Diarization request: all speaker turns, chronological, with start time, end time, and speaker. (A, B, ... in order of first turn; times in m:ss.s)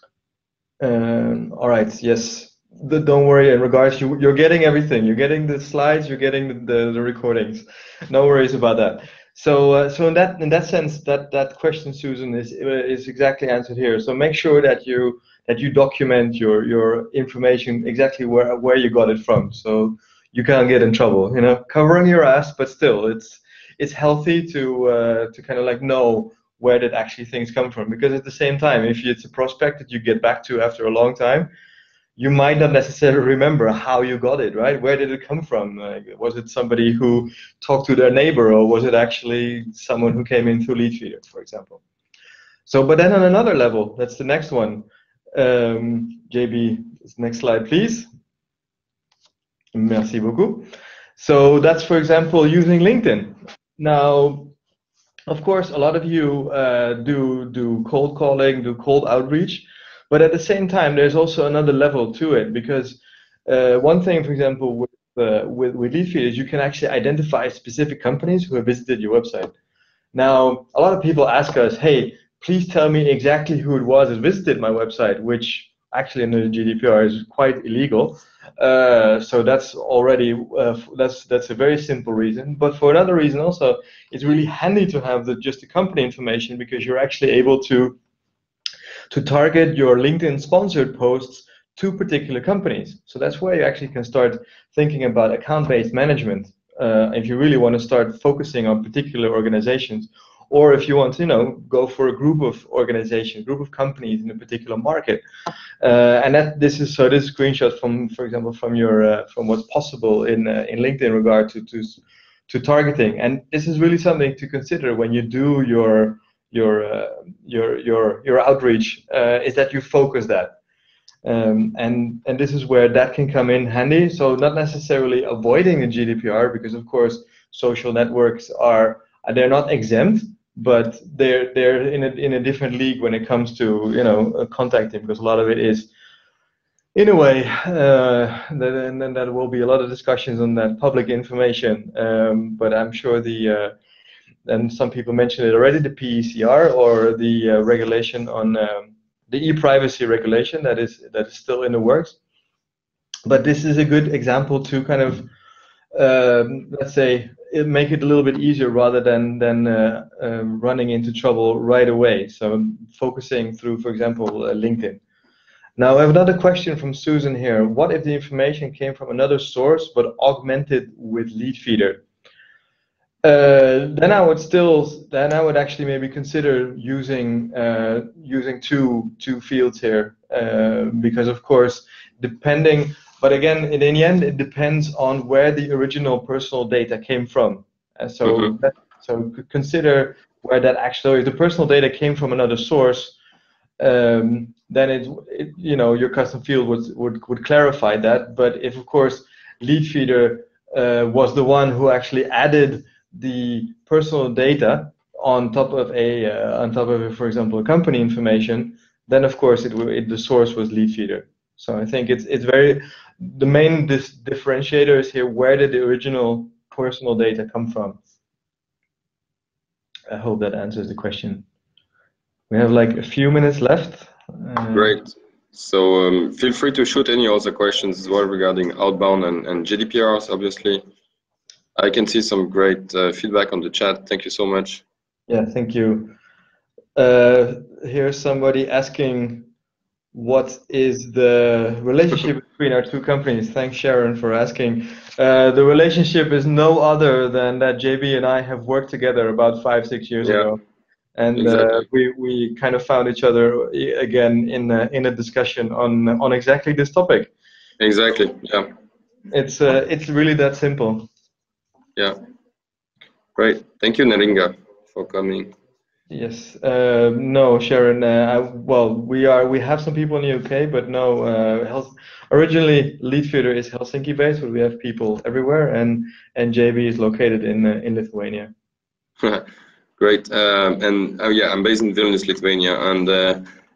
0:00.8-0:31.5 A
0:32.2-0:41.8 A
0:42.7-0:48.1 A
0:49.7-0:54.6 A
0:55.3-1:09.5 A
1:10.1-1:28.0 A
1:29.1-1:45.2 A
1:45.8-2:00.6 A
2:01.2-2:15.9 A
2:17.0-2:23.7 A
2:24.5-2:32.2 A
2:33.3-2:35.3 A
2:35.9-2:45.0 A
2:45.8-2:52.0 A
2:53.2-3:13.2 A
3:08.2-3:08.5 B
3:13.8-3:38.0 A
3:40.1-3:41.4 A
3:42.5-3:45.0 A
3:44.7-3:50.8 B
3:51.8-3:54.8 B
3:55.3-3:56.2 A
3:57.0-3:59.5 A
4:00.1-4:10.6 A
4:10.2-4:10.5 B
4:11.2-4:17.3 A
4:11.4-4:11.8 B
4:17.8-4:18.7 B
4:19.3-4:21.1 A
4:23.4-4:25.5 B
4:26.1-4:38.5 A
4:39.2-4:39.5 B
4:40.0-4:43.4 B